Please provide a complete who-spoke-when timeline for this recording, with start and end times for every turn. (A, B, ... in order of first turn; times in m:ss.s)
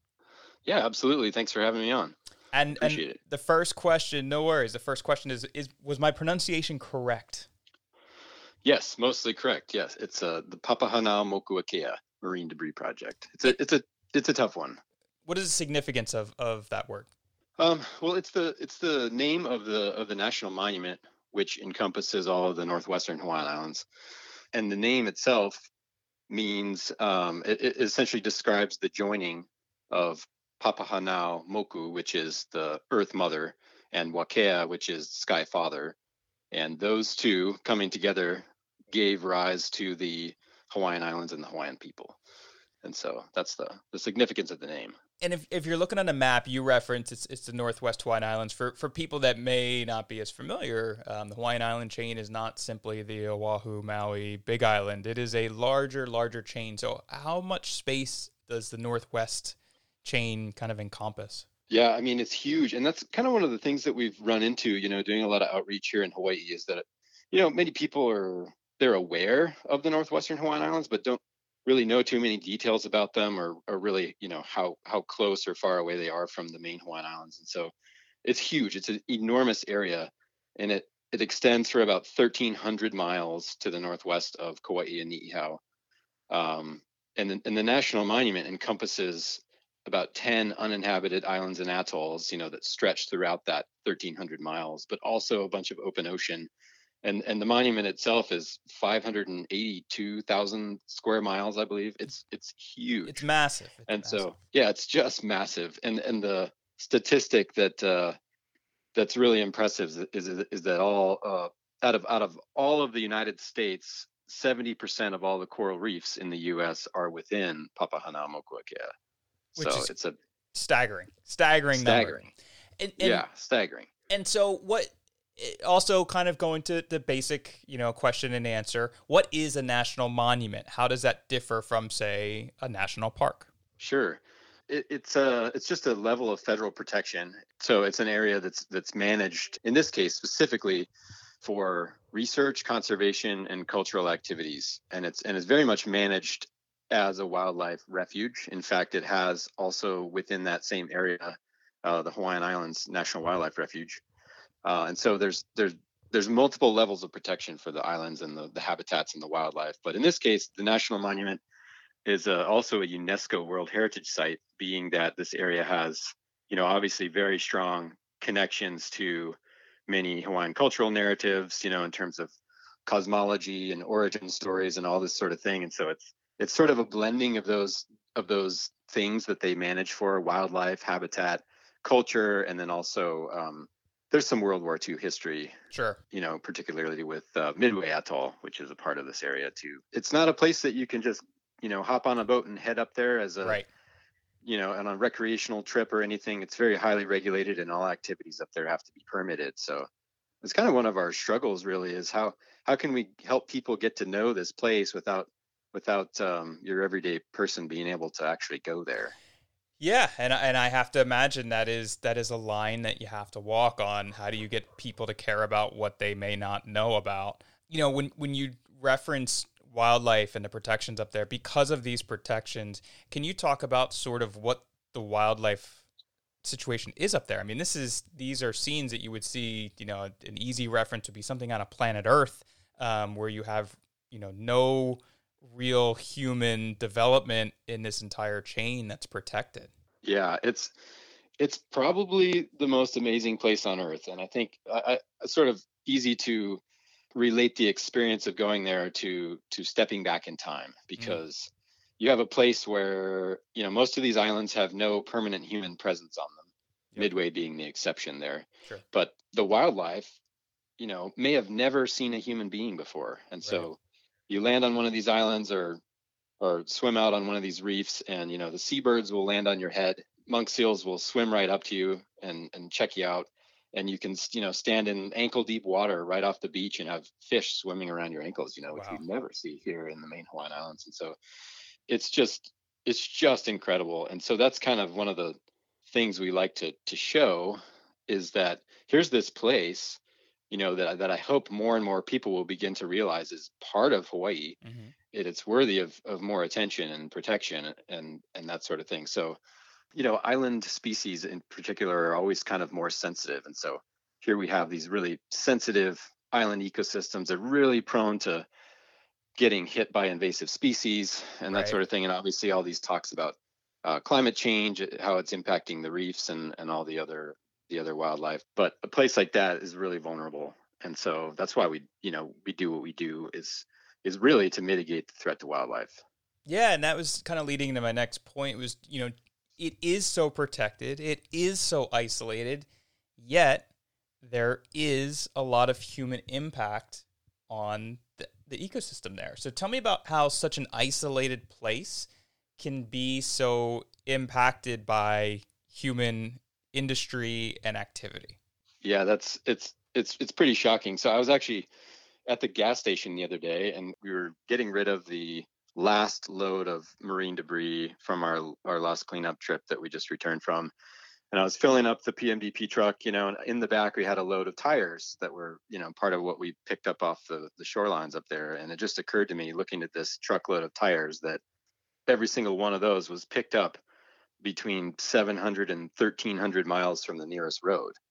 0:00.7-0:02.1 A
0:02.5-0:07.5 B
0:02.7-0:03.2 A
0:08.6-0:14.8 A
0:15.2-0:17.1 B
0:17.6-0:23.9 A
0:24.5-0:25.7 A
0:26.3-0:36.0 A
0:36.5-0:42.2 A
0:42.8-0:45.0 A
0:45.2-1:01.4 B
1:01.7-1:17.7 A
1:18.2-1:25.6 A
1:26.3-1:36.5 A
1:37.0-1:43.2 A
1:43.0-1:44.3 B
1:43.9-1:48.2 A
1:49.0-1:58.9 A
1:59.6-2:00.1 A
1:59.6-1:59.9 B
2:00.5-2:02.2 B
2:01.7-2:02.3 A
2:02.8-2:03.2 B
2:03.0-2:03.9 A
2:04.1-2:13.5 B
2:13.8-2:20.9 A
2:21.4-2:34.0 A
2:34.6-2:41.4 A
2:42.0-2:52.3 A
2:52.8-3:05.5 A
3:05.7-3:06.0 B
3:06.1-3:13.6 A
3:14.4-3:19.9 A
3:20.4-3:29.1 A
3:29.8-3:45.8 B
3:46.4-3:59.7 B
4:00.0-4:00.7 A
4:01.4-4:06.6 A
4:07.2-4:20.2 A
4:20.8-4:23.8 A
4:23.4-4:23.7 B
4:24.3-4:25.8 A
4:26.4-4:41.2 A
4:38.7-4:39.0 B
4:41.9-4:54.6 A
4:54.6-4:54.9 B
4:55.1-4:59.4 A
4:59.9-5:08.5 A
5:09.4-5:26.0 A
5:11.5-5:11.8 B
5:26.5-5:32.7 B
5:33.2-5:33.7 B
5:34.2-5:48.4 B
5:48.8-5:51.7 A
5:52.3-6:00.7 A
6:01.3-6:11.4 A
6:12.1-6:13.8 A
6:14.4-6:18.0 A